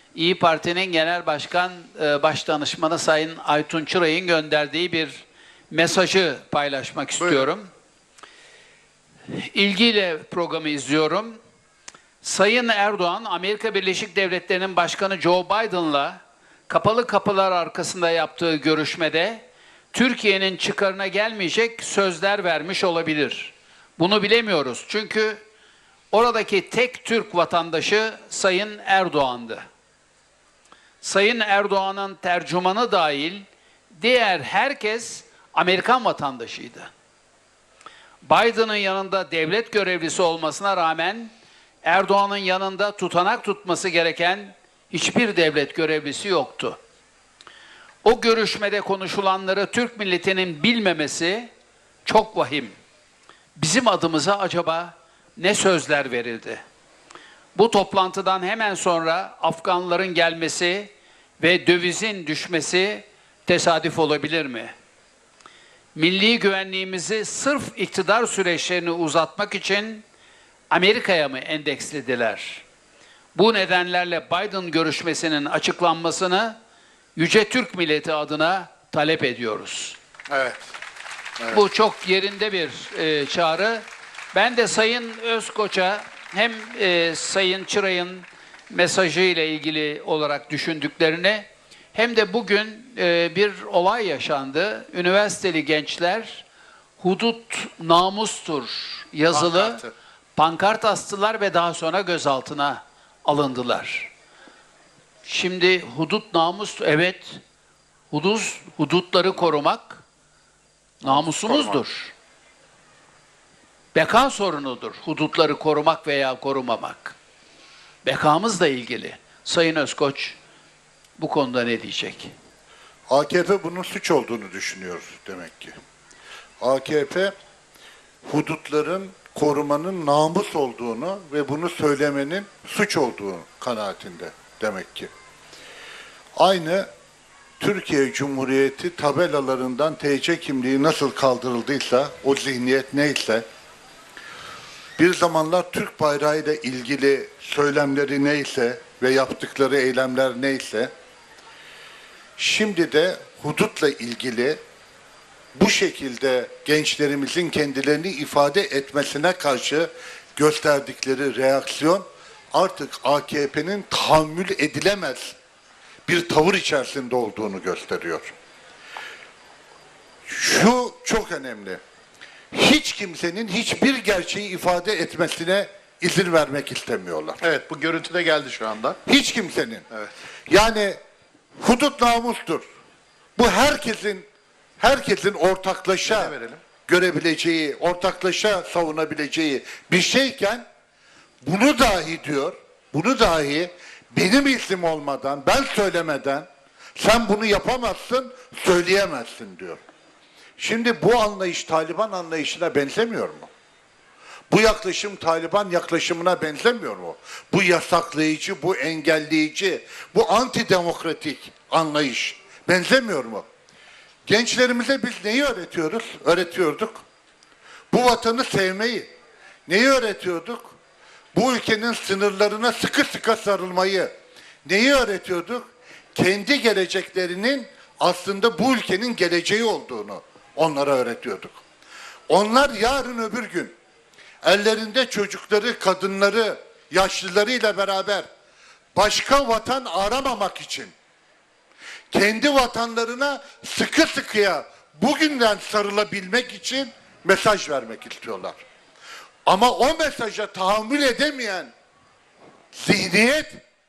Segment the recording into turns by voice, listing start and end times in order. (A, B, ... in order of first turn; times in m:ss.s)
0:00.1-0:07.7 A
0:09.3-0:11.4 A
0:12.2-0:25.4 A
0:26.1-0:29.6 A
0:31.0-0:36.9 A
0:38.2-0:41.3 A
0:41.8-0:46.8 A
0:48.0-0:51.5 A
0:52.0-0:52.7 A
0:53.6-0:56.6 A
0:57.5-1:04.7 A
1:05.9-1:10.0 A
1:10.7-1:12.6 A
1:13.3-1:16.6 A
1:17.2-1:20.0 A
1:20.3-1:20.6 B
1:21.5-1:36.4 A
1:37.0-1:39.8 A
1:39.4-1:39.9 B
1:40.4-1:44.1 A
1:45.2-1:47.4 A
1:48.1-1:50.0 A
1:51.0-1:52.1 A
1:51.4-1:51.8 B
1:53.9-1:57.2 A
1:58.0-2:00.4 A
2:01.2-2:02.3 A
2:03.1-2:05.8 C
2:06.6-2:07.3 C
2:08.2-2:15.1 C
2:16.4-2:16.9 C
2:17.6-2:23.4 C
2:25.0-2:30.9 C
2:32.4-2:34.6 C
2:35.5-2:45.4 C
2:46.1-2:48.3 C
2:50.3-2:51.8 C
2:52.5-2:57.4 C
2:57.4-2:59.0 B
2:59.0-2:59.8 C
3:00.5-3:01.0 C
3:01.6-3:02.6 C
3:03.4-3:04.3 C
3:04.8-3:06.4 C
3:06.1-3:06.6 B
3:06.9-3:10.6 C
3:11.4-3:19.8 C
3:20.6-3:23.5 C
3:24.5-3:33.4 C
3:34.3-3:37.0 C
3:37.9-3:39.1 C
3:39.7-3:40.7 C
3:41.3-3:44.1 C
3:44.6-3:51.6 C
3:52.3-3:53.7 C
3:54.4-3:58.3 C
3:58.9-4:00.9 C
4:02.1-4:08.6 C
4:09.4-4:11.7 C
4:12.7-4:13.6 C